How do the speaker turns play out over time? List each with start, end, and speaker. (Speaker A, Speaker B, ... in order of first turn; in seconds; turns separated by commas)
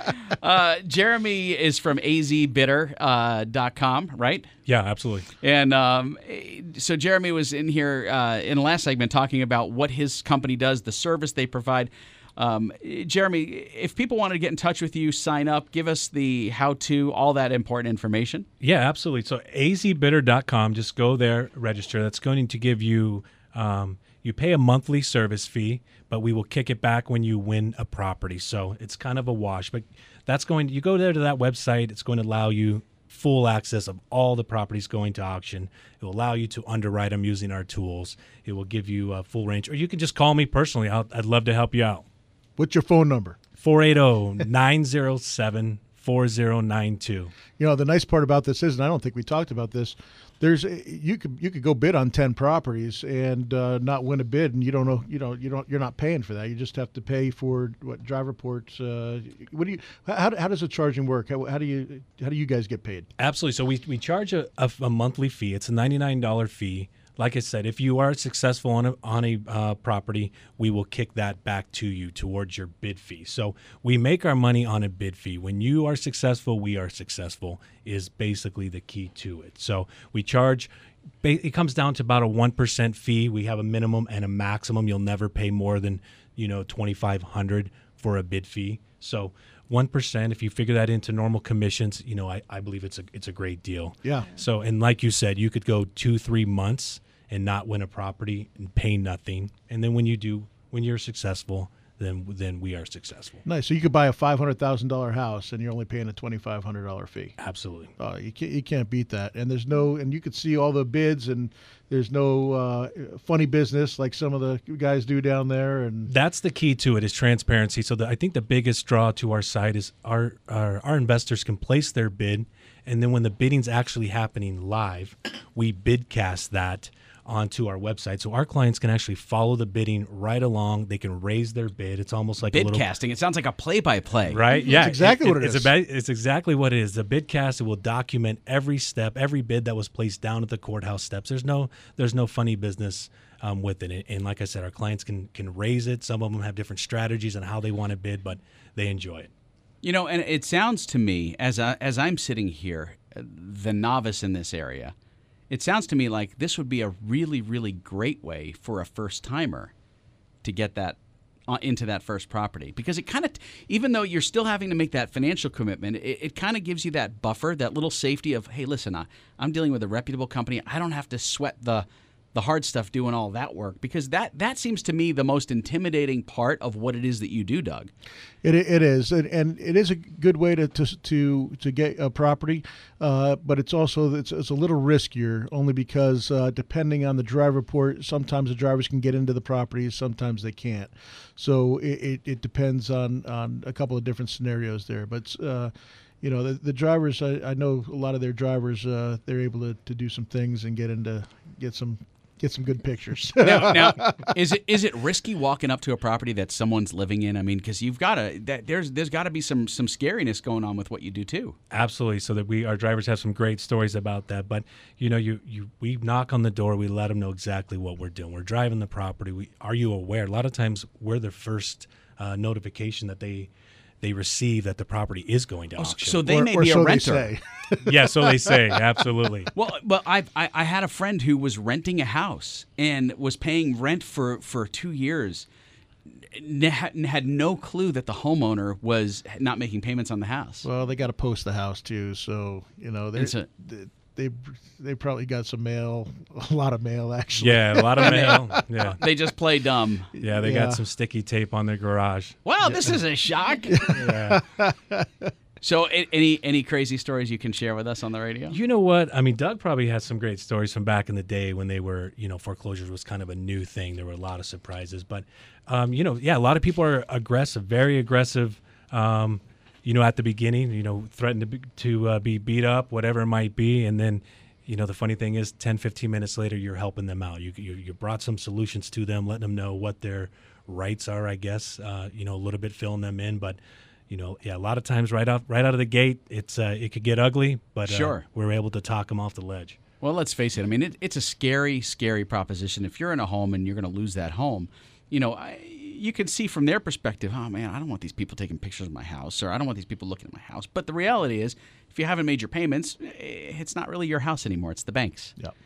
Speaker A: 0.3-4.5, Speaker B: 4.7-5.3, Speaker A: 5.4-18.5, Speaker B: 18.6-42.1, Speaker C: 42.6-43.4, Speaker B: 43.6-47.3, Speaker C: 47.6-63.1, Speaker B: 63.2-80.7, Speaker B: 81.2-103.4, Speaker C: 103.5-107.4, Speaker B: 107.4-107.9, Speaker C: 108.0-116.1, Speaker B: 116.1-132.9, Speaker A: 132.4-134.4, Speaker B: 134.3-149.3, Speaker C: 134.6-135.8, Speaker A: 149.8-154.9, Speaker A: 155.5-159.7, Speaker A: 160.4-177.9, Speaker C: 178.4-204.3, Speaker A: 203.4-211.6, Speaker B: 211.7-223.5, Speaker B: 224.0-226.3, Speaker A: 225.8-227.3, Speaker C: 226.2-228.7, Speaker B: 227.8-229.5, Speaker A: 229.5-235.5, Speaker A: 236.3-240.7, Speaker C: 240.6-248.7, Speaker A: 243.2-243.5, Speaker B: 247.4-249.0, Speaker A: 248.0-250.1, Speaker C: 250.1-250.8, Speaker B: 250.2-252.4, Speaker A: 252.4-253.8, Speaker C: 252.7-252.9, Speaker C: 253.7-255.3, Speaker B: 253.9-254.4, Speaker A: 255.6-258.6, Speaker B: 258.5-283.6, Speaker B: 284.1-289.8, Speaker A: 287.9-288.2, Speaker A: 290.0-305.4